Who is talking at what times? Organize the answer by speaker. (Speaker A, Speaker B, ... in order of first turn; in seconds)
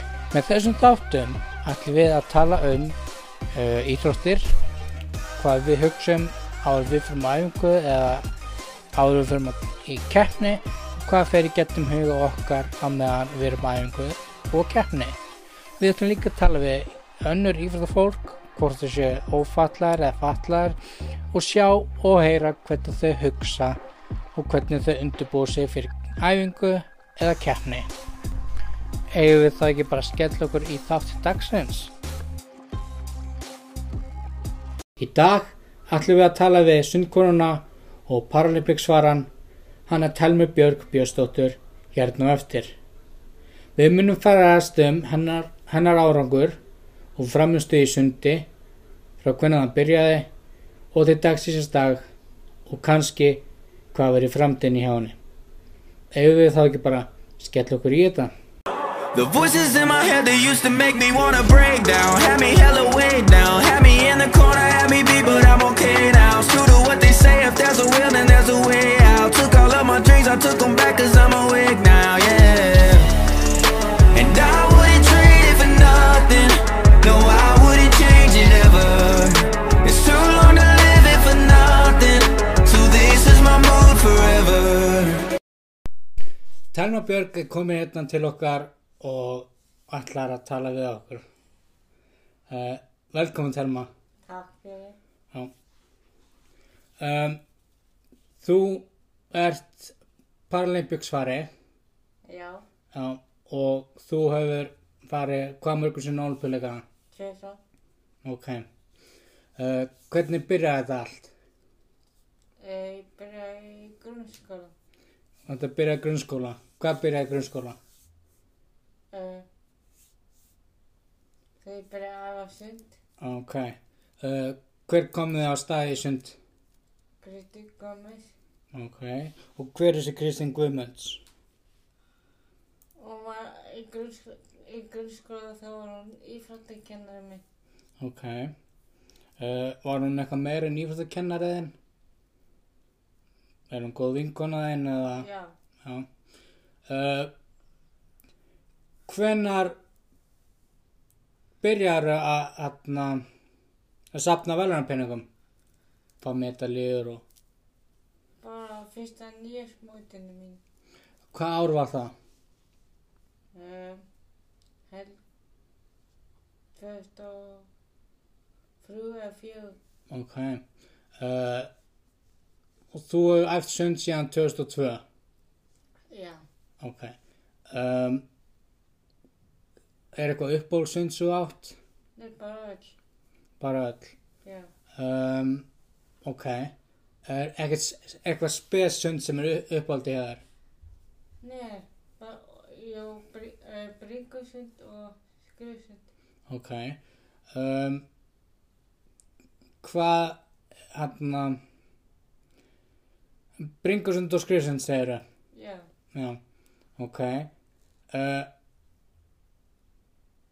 Speaker A: 0.3-3.0, 3.5-4.5, 5.4-8.3, 8.9-15.2, 15.8-20.8, 21.3-23.8, 24.3-27.9, 29.1-31.9, 35.0-39.3, 39.9-42.7, 43.8-46.6, 47.1-48.5, 49.2-50.3, 50.9-52.0, 52.6-55.2, 56.1-58.3, 86.7-91.2, 92.5-93.9, 97.0-97.4, 98.4-99.9, 100.5-101.5, 102.9-106.8, 108.2-108.7, 109.5-111.3, 115.5-117.8, 123.2-126.4, 128.7-131.2, 138.0-138.5, 139.4-141.7, 143.7-145.3, 145.8-146.1, 146.9-147.3, 149.1-149.8, 151.6-153.2, 154.1-155.3, 156.2-157.2, 161.3-162.1, 170.1-170.6, 171.2-171.7, 172.9-175.0, 176.8-177.1, 177.7-178.2, 180.1-181.8, 183.6-184.1, 184.9-185.7, 186.2-186.7, 187.2-190.4, 196.5-197.0, 197.5-198.0, 199.8-200.4, 200.9-201.6, 203.6-205.2, 206.1-206.4, 207.0-207.5, 208.1-208.5
Speaker B: 59.1-73.1, 74.1-85.3
Speaker C: 94.2-95.0, 102.3-102.6, 107.1-107.6, 112.6-114.7, 119.1-119.5, 121.6-123.0, 127.2-128.3, 133.0-137.4, 145.2-145.5, 158.4-160.6, 163.5-164.0, 164.9-165.2, 166.7-167.7, 168.8-169.8, 176.1-176.4, 182.2-183.0, 184.4-184.7, 191.4-196.1, 205.5-205.9